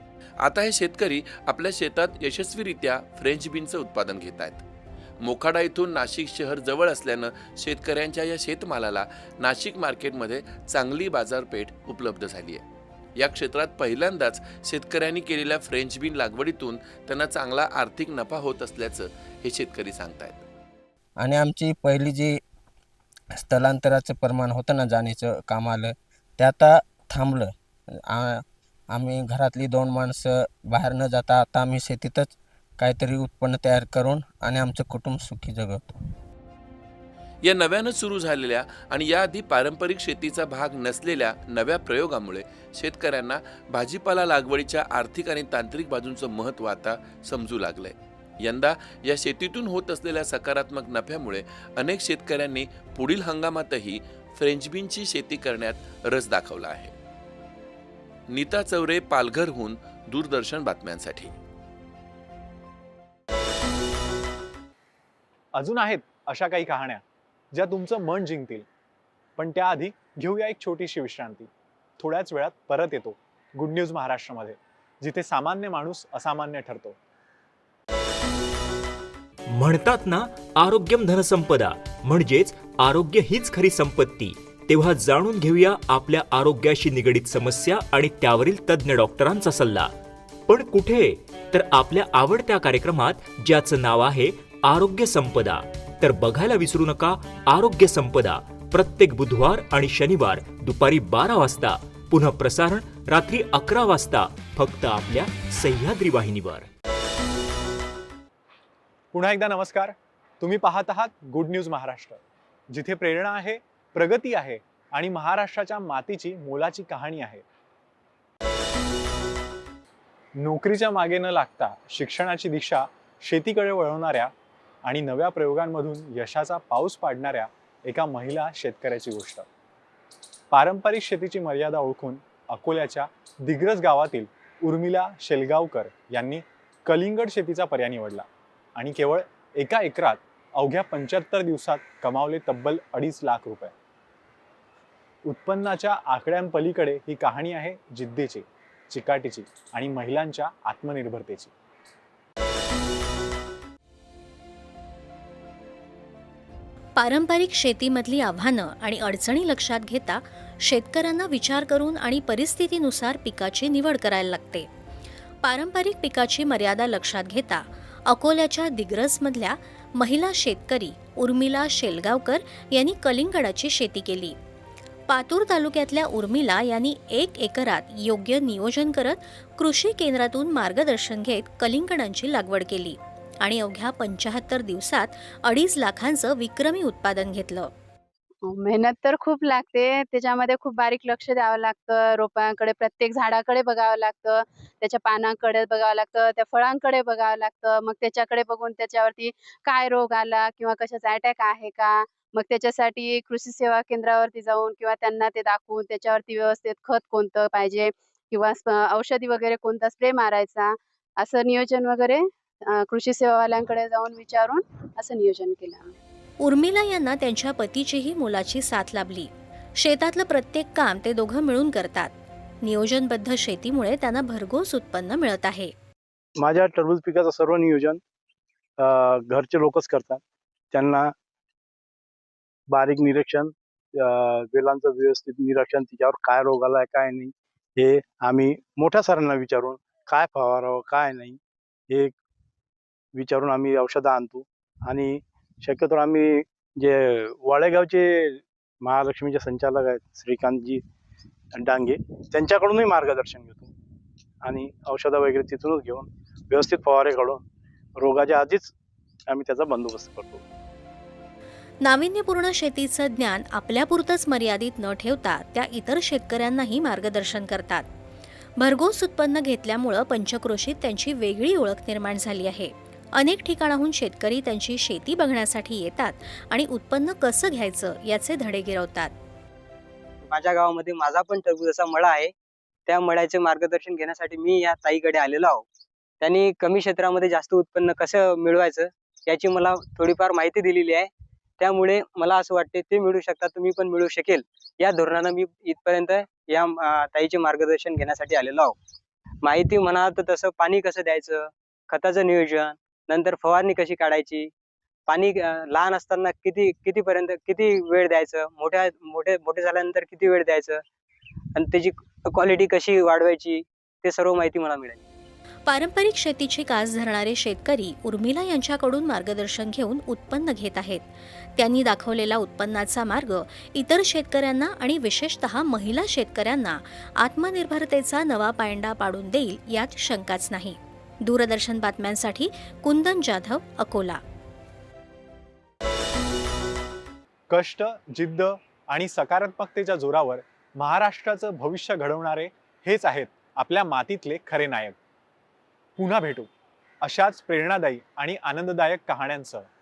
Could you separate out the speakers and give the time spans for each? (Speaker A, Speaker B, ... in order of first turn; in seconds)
Speaker A: 0.4-4.6, 5.2-12.6, 13.2-20.4, 37.4-56.9, 58.3-61.4
Speaker B: 21.2-22.4, 23.4-35.9
Speaker C: 65.5-68.7, 69.4-77.0, 109.1-117.4, 120.4-124.3, 124.8-129.4, 130.5-143.7, 145.3-151.5, 337.5-345.0, 346.0-346.5, 347.0-349.7
Speaker D: 79.5-89.9, 90.5-106.7
Speaker E: 157.0-164.7, 165.4-174.4, 175.1-187.7, 216.4-225.7, 261.8-267.9, 268.6-279.1, 315.7-334.2
Speaker F: 188.4-216.0
Speaker G: 226.4-228.0, 228.8-231.1, 232.7-241.4, 241.9-242.2, 243.1-250.8, 251.5-253.7, 254.4-257.4, 258.0-258.7, 259.3-260.4
Speaker H: 280.3-282.3, 282.9-285.7, 286.2-298.8, 299.4-304.5, 305.1-310.8, 311.6-315.0